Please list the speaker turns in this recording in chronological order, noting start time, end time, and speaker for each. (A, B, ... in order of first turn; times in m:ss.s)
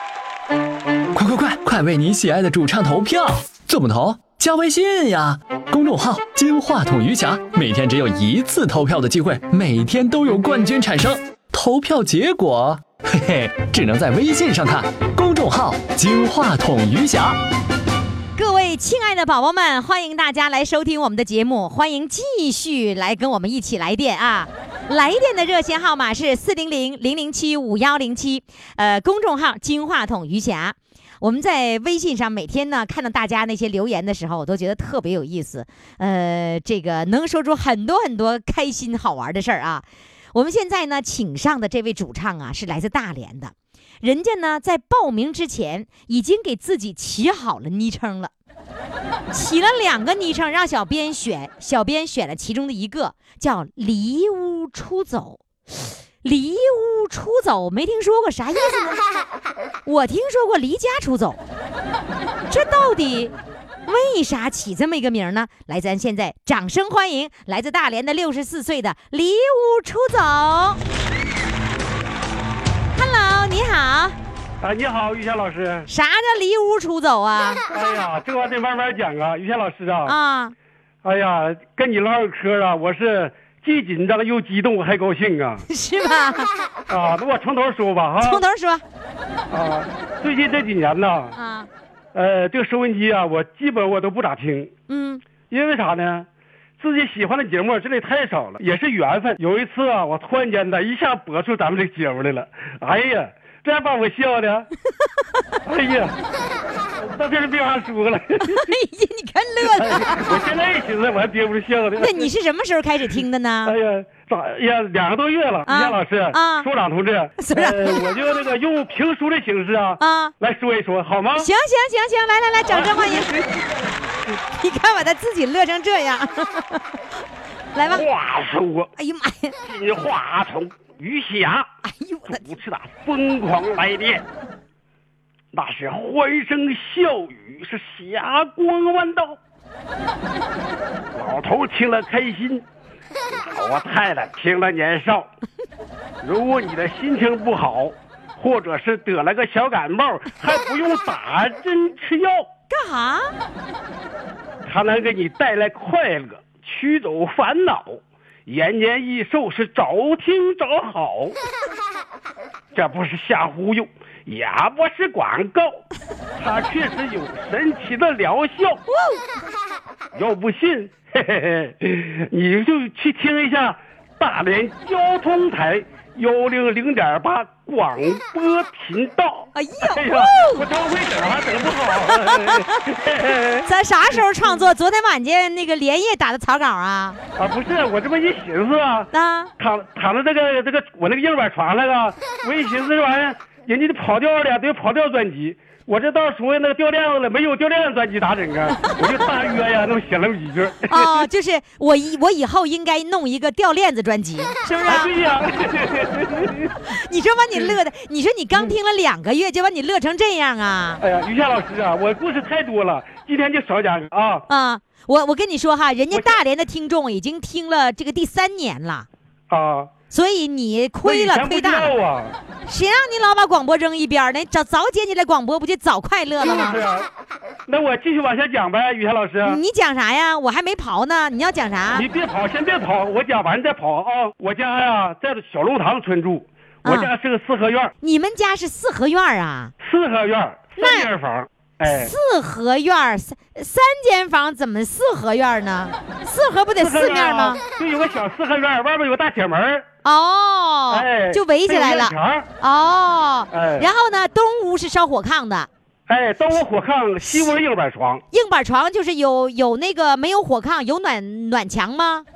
0:01.1-0:17.4 A
0:18.4-0:48.3 B
0:49.3-0:59.0 B
0:59.8-1:01.4 B
1:02.5-1:03.3 B
1:03.9-1:10.8 B
1:12.9-1:14.2 B
1:14.6-1:15.9 C
1:15.9-1:17.6 B
1:17.7-1:20.2 C
1:20.1-1:20.5 B
1:21.0-1:25.6 C
1:25.7-1:26.5 B
1:26.9-1:28.4 C
1:28.2-1:28.8 B
1:29.5-1:31.4 C
1:31.4-1:31.7 B
1:32.1-1:34.7 C
1:34.9-1:35.2 B
1:35.5-1:36.3 C
1:36.8-1:44.7 C
1:45.6-1:46.2 C
1:47.0-1:48.7 C
1:48.4-1:50.4 B
1:49.6-1:52.3 C
1:52.0-1:53.8 B
1:53.7-2:01.5 C
1:55.7-1:56.7 B
1:57.4-1:58.0 B
2:00.0-2:00.3 B
2:01.4-2:03.3 B
2:02.7-2:03.7 C
2:04.5-2:06.8 B
2:07.8-2:08.0 B
2:07.8-2:08.9 C
2:09.0-2:09.6 B
2:09.6-2:11.7 C
2:11.8-2:12.6 B
2:12.3-2:14.2 C
2:15.5-2:19.4 C
2:21.1-2:22.6 C
2:23.3-2:25.3 C
2:26.2-2:32.5 C
2:32.7-2:33.3 B
2:34.6-2:41.4 C
2:42.7-2:45.8 C
2:46.4-2:48.8 C
2:50.1-3:04.6 C
2:59.6-3:00.6 B
3:02.1-3:02.6 B
3:03.6-3:07.2 B
3:07.4-3:21.3 C
3:09.1-3:09.5 B
3:20.9-3:25.1 B
3:24.9-3:26.8 C
3:26.9-3:31.0 B
3:31.0-3:34.5 C
3:34.5-3:39.1 B
3:36.1-3:36.4 C
3:39.5-3:39.9 C
3:40.1-3:41.9 B
3:41.0-3:42.4 C
3:42.6-3:46.8 B
3:46.4-3:47.1 C
3:47.7-3:49.6 C
3:49.4-3:52.1 B
3:51.9-3:57.9 C
3:56.8-3:57.1 B
3:58.0-3:59.7 B
3:59.8-4:02.1 C
4:00.8-4:01.1 B
4:01.8-4:07.6 B
4:06.8-4:09.9 C
4:10.0-4:15.7 B
4:10.9-4:12.5 C
4:13.5-4:13.9 C
4:16.1-4:18.2 C
4:18.3-4:22.3 B